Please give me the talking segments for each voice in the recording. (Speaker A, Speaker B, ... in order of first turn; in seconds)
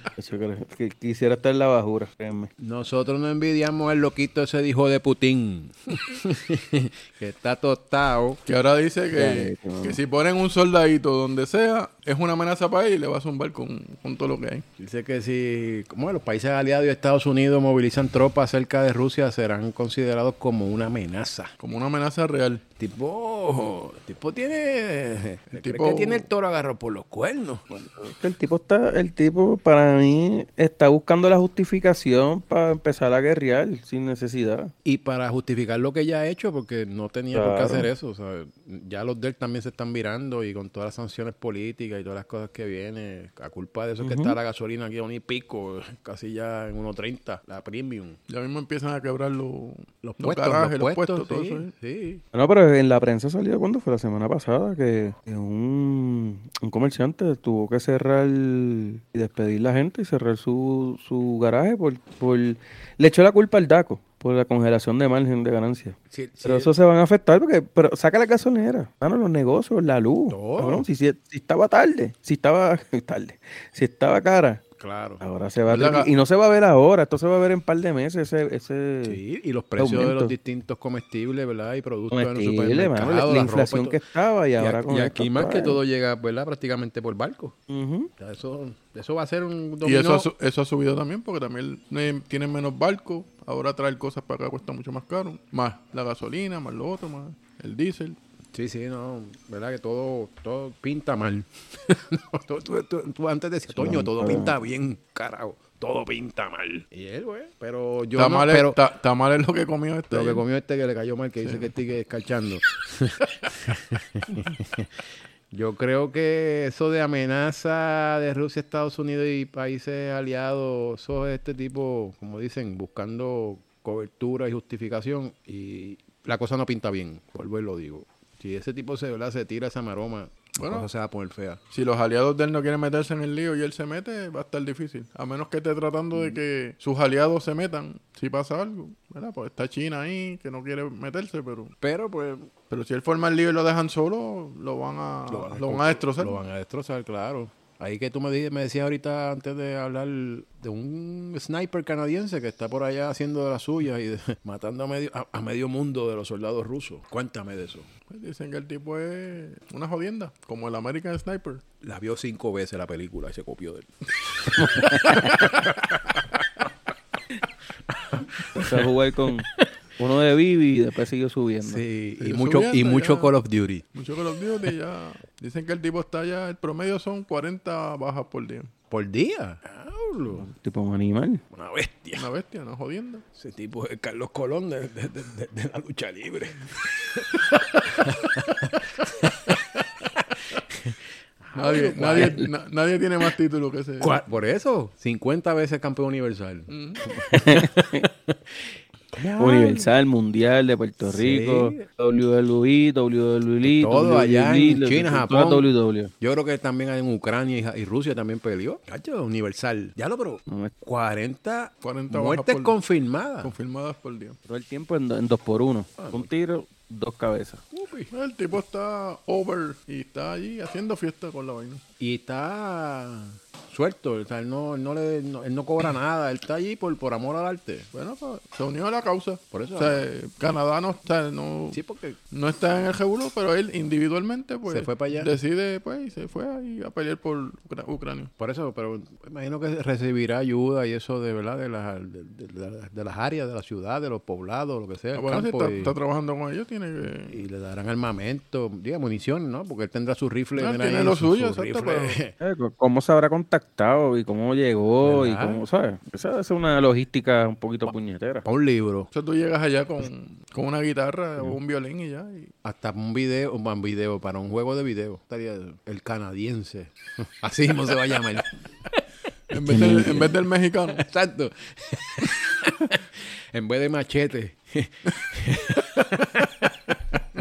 Speaker A: 0.2-2.5, 9.2-10.0, 27.7-34.7, 37.3-37.9, 44.0-44.4, 52.3-74.6, 75.2-79.2, 79.8-80.3, 82.1-85.8, 87.7-88.1, 103.8-104.6, 164.6-165.4, 168.6-169.5, 170.0-171.8, 180.4-181.4, 192.2-192.5, 197.3-198.1, 199.4-206.1, 214.5-217.6, 252.4-258.5, 269.7-270.3
Speaker B: 2.6-8.4, 14.8-21.5, 22.8-27.6, 34.8-48.2, 50.0-52.2, 66.1-66.7, 70.3-70.9, 74.8-75.2, 79.0-84.0, 84.6-87.6, 88.2-90.3, 98.5-108.8, 110.1-114.9, 115.5-131.6, 141.8-142.5, 145.3-157.9, 161.8-166.7, 167.9-168.9, 171.6-173.9, 178.9-180.5, 181.5-182.3, 183.4-192.4, 194.0-199.9, 201.1-201.9, 203.7-205.7, 206.2-213.5, 216.0-216.3, 217.7-218.1, 222.0-227.9, 229.5-230.1, 231.7-232.2, 234.7-235.3, 238.4-245.9, 247.3-252.3, 255.0-255.6, 258.5-259.1, 262.6-269.0, 269.7-270.3, 271.0-276.7
Speaker C: 8.5-14.7, 21.6-22.6, 25.5-26.3, 48.3-51.7, 75.7-76.1, 89.8-98.2, 108.2-110.4, 130.6-130.9, 131.7-141.7, 142.7-146.4, 158.1-161.6, 172.2-173.3, 173.9-178.7, 182.2-183.2, 191.6-194.2, 196.7-197.0, 211.8-212.8, 213.4-214.4, 218.1-221.8, 227.9-231.8, 232.3-238.3, 245.2-247.4, 250.6-252.2, 259.1-262.5, 269.5-271.0